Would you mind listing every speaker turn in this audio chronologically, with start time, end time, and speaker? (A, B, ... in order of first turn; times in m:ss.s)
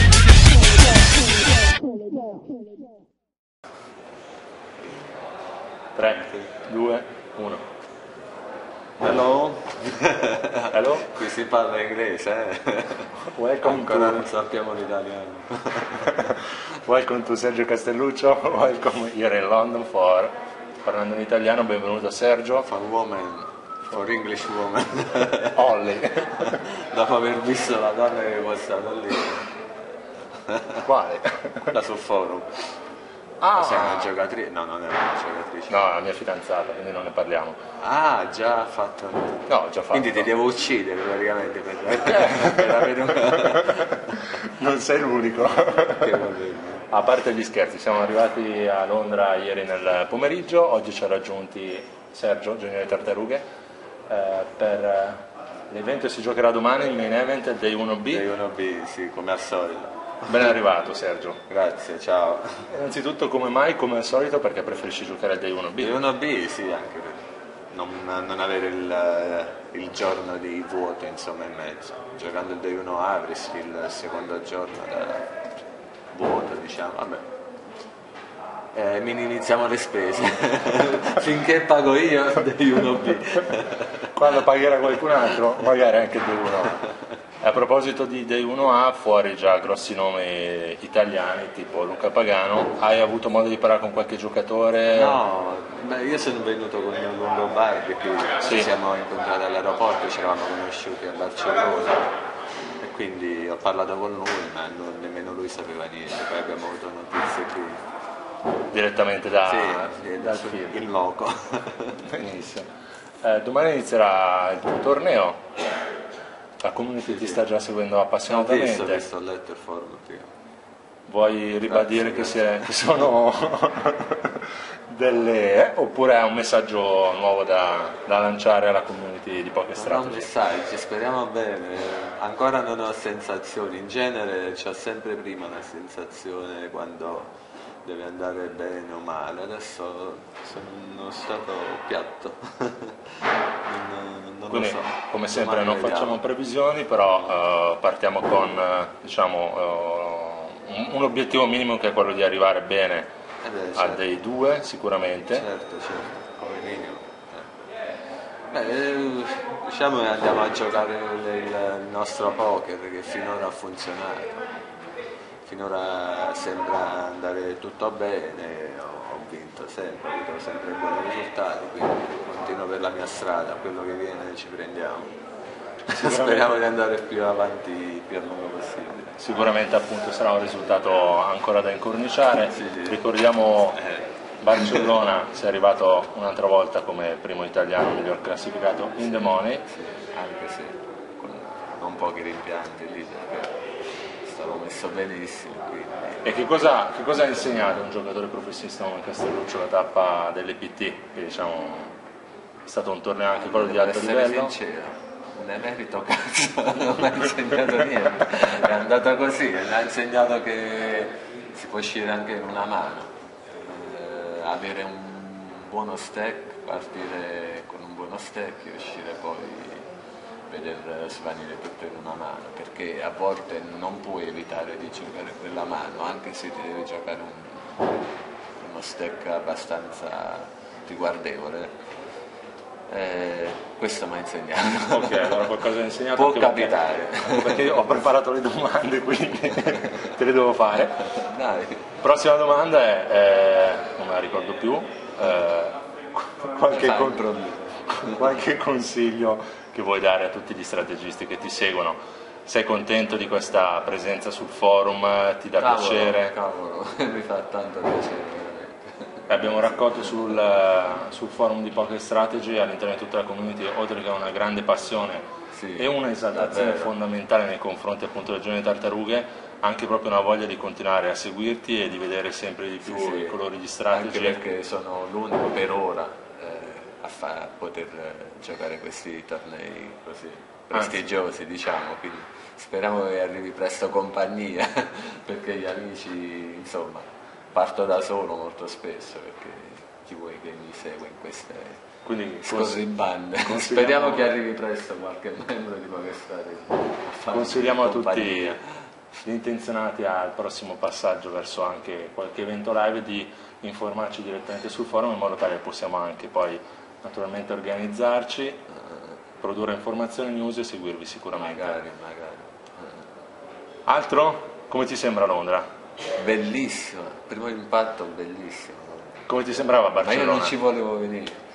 0:06.0-0:07.6 A
0:06.1-0:06.5 B
0:09.0-0:16.3 B
0:10.7-0:11.1 A
0:13.2-0:14.3 A
0:16.1-0:22.7 A
0:22.6-0:25.7 B
0:25.5-0:26.6 A
0:26.3-0:29.5 B
0:30.4-0:30.8 B
0:30.8-0:31.7 A
0:31.7-0:32.7 B
0:33.4-0:34.1 A
0:33.5-0:36.0 B
0:35.7-0:37.6 A
0:37.8-0:44.0 B
0:39.5-0:40.3 A
0:41.9-0:46.2 A
0:45.9-0:46.9 B
0:46.9-0:53.4 A
0:54.1-0:58.2 A
0:58.1-1:00.5 B
1:00.3-1:01.4 A
1:01.5-1:02.7 B
1:02.7-1:06.0 A
1:05.8-1:15.3 B
1:16.1-1:17.3 B
1:18.7-1:24.1 B
1:24.1-1:26.8 A
1:27.4-1:35.2 A
1:34.9-1:42.1 B
1:38.4-1:38.7 A
1:42.8-1:47.8 B
1:48.7-1:50.9 A
1:49.4-1:52.0 B
1:52.0-1:52.7 A
1:53.2-1:55.4 A
1:56.6-1:59.1 A
1:57.1-1:57.4 B
1:58.2-2:00.3 B
2:01.1-2:10.3 A
2:01.6-2:03.0 B
2:09.7-2:23.1 B
2:23.6-2:26.2 B
2:24.5-2:33.1 A
2:33.4-2:34.0 B
2:33.8-2:35.4 A
2:35.3-2:37.5 B
2:38.5-2:44.4 B
2:45.4-2:55.2 B
2:55.9-2:59.2 B
2:55.9-2:56.6 A
2:59.2-3:03.8 A
3:02.5-3:03.0 B
3:03.7-3:04.9 B
3:04.4-3:09.6 A
3:09.7-3:13.6 B
3:14.2-3:16.3 B
3:16.2-3:21.9 A
3:22.6-3:24.6 A
3:23.3-3:39.9 B
3:40.5-3:47.8 B
3:48.6-3:51.8 B
3:52.9-3:57.9 B
3:54.9-4:01.0 A
4:01.0-4:01.8 B
4:02.0-4:07.2 A
4:06.7-4:08.3 B
4:08.0-4:16.3 A
4:15.5-4:20.3 B
4:19.3-4:34.4 A
4:25.5-4:26.9 B
4:32.8-4:33.4 B
4:33.9-4:51.8 B
4:40.7-4:41.0 A
4:52.0-4:52.8 A
4:52.4-4:58.8 B
4:53.4-4:54.3 A
4:57.3-4:58.6 A
4:59.2-5:08.6 A
5:08.7-5:09.2 B
5:09.4-5:11.8 A
5:11.3-5:13.1 B
5:13.9-5:15.6 A
5:16.1-5:19.3 B
5:19.3-5:20.6 A
5:19.9-5:21.4 B